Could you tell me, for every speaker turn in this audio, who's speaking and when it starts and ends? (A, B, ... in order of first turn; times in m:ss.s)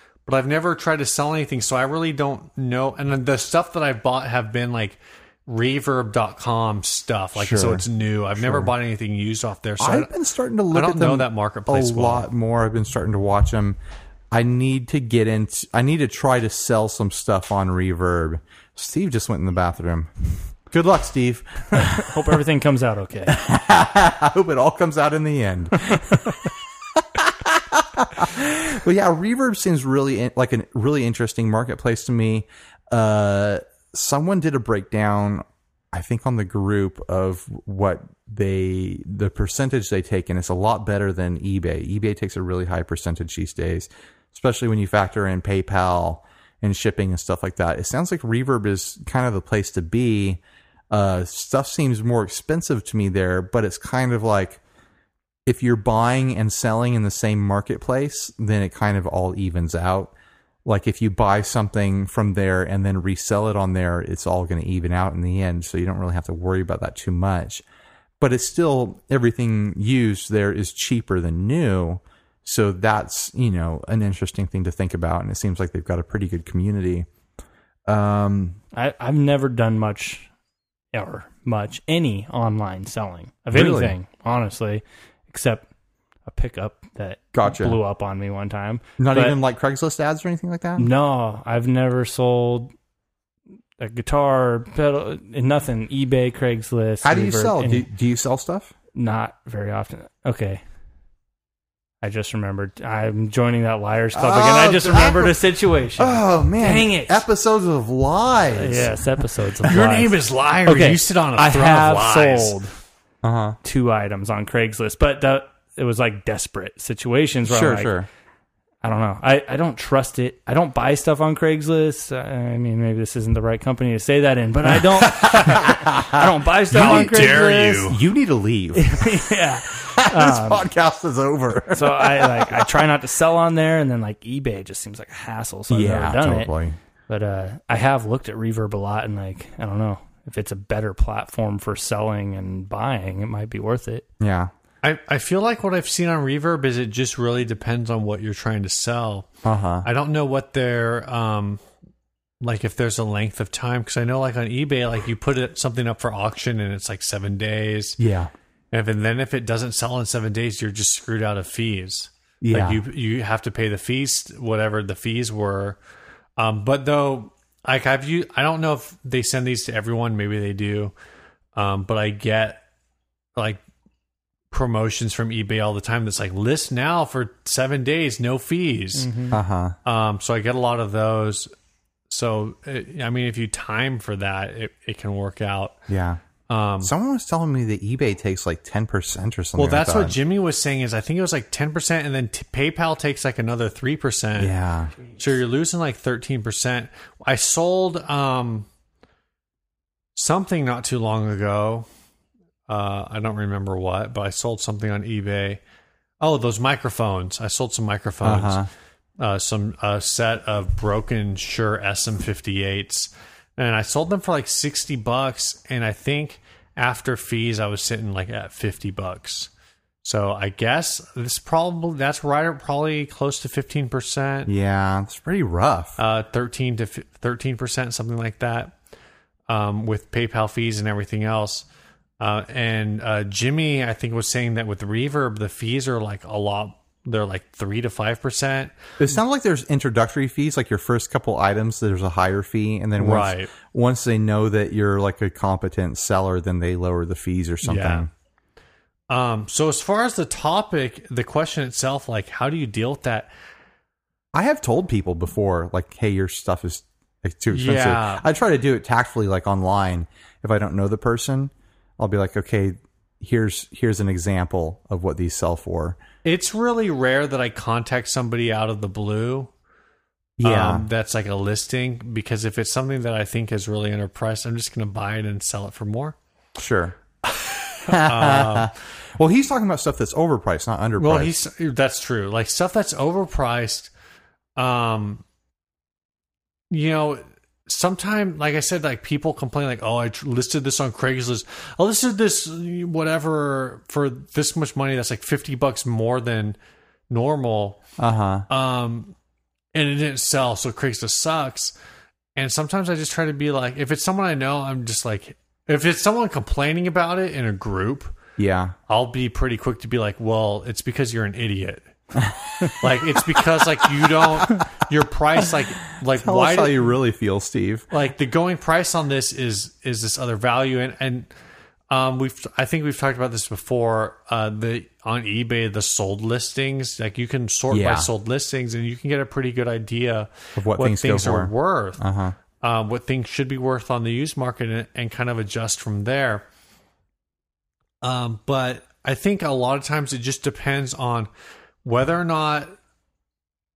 0:00.3-0:10.1 A
0:07.4-0:07.9 B
0:08.4-0:08.7 B
0:09.8-0:13.8 B
0:10.7-0:12.3 A
0:14.3-0:22.2 B
0:21.7-0:23.4 C
0:23.3-0:50.4 B
0:50.9-0:54.6 B
0:55.5-1:00.1 B
1:00.6-1:07.6 B
1:08.2-1:17.1 B
1:17.9-1:18.6 B
1:18.7-1:20.3 C
1:20.9-1:25.7 C
1:23.5-1:23.9 B
1:26.3-1:29.4 C
1:27.3-1:27.8 B
1:29.0-1:30.9 B
1:30.8-1:32.7 C
1:33.8-1:37.9 C
1:37.0-1:38.7 B
1:38.9-1:40.6 C
1:42.0-1:47.2 C
1:44.2-1:45.4 B
1:46.0-1:49.0 B
1:48.5-1:52.7 C
1:49.7-1:52.5 A
1:53.2-1:53.6 B
1:53.6-1:57.9 C
1:57.5-1:58.1 B
1:58.8-2:08.0 C
2:05.0-2:12.7 B
2:06.7-2:08.0 A
2:08.8-2:10.7 C
2:11.7-2:16.5 C
2:15.7-2:16.8 B
2:17.1-2:24.1 C
2:24.2-2:24.5 B
2:24.8-2:29.3 A
2:29.4-2:29.9 B
2:29.8-2:31.6 A
2:32.4-2:38.0 A
2:38.0-2:38.3 B
2:38.7-2:45.8 A
2:42.4-2:42.8 B
2:46.4-2:50.9 A
2:51.6-2:52.6 A
2:53.4-2:53.6 A
2:54.5-2:59.1 A
2:59.0-2:59.4 C
2:59.3-2:59.8 B
2:59.8-3:01.5 A
3:02.1-3:05.8 A
3:05.9-3:06.2 B
3:06.5-3:06.9 A
3:06.8-3:10.2 B
3:09.6-3:14.6 A
3:14.4-3:15.0 B
3:15.2-3:18.7 A
3:20.2-3:21.9 A
3:22.7-3:25.6 A
3:26.2-3:28.7 A
3:28.2-3:28.7 B
3:29.2-3:39.5 A
3:40.0-3:44.5 A
3:44.5-3:46.0 B
3:46.0-3:48.8 A
3:49.5-3:51.7 A
3:52.2-3:58.8 A
3:59.0-4:08.1 B
4:03.0-4:03.5 A
4:07.6-4:08.1 A
4:09.1-4:13.3 A
4:14.3-4:26.0 B
4:17.5-4:18.2 A
4:26.2-4:29.5 A
4:30.4-4:30.9 B
4:30.4-4:36.2 A
4:36.6-4:37.0 B
4:37.2-4:38.7 A
4:37.9-4:41.3 B
4:41.0-4:43.9 A
4:44.6-4:45.2 A
4:46.7-4:56.6 A
4:57.1-4:57.8 A
4:58.0-4:58.5 B
4:58.5-4:59.1 A
4:59.7-5:01.7 A
5:02.4-5:08.2 A
5:08.4-5:08.8 B
5:08.9-5:11.9 A
5:12.2-5:13.0 B
5:12.8-5:16.9 A
5:16.1-5:17.9 B
5:17.9-5:21.3 A
5:21.9-5:32.0 A
5:27.7-5:28.1 B
5:30.6-5:32.4 B
5:32.6-5:36.5 A
5:38.0-5:41.3 A
5:41.8-5:42.7 A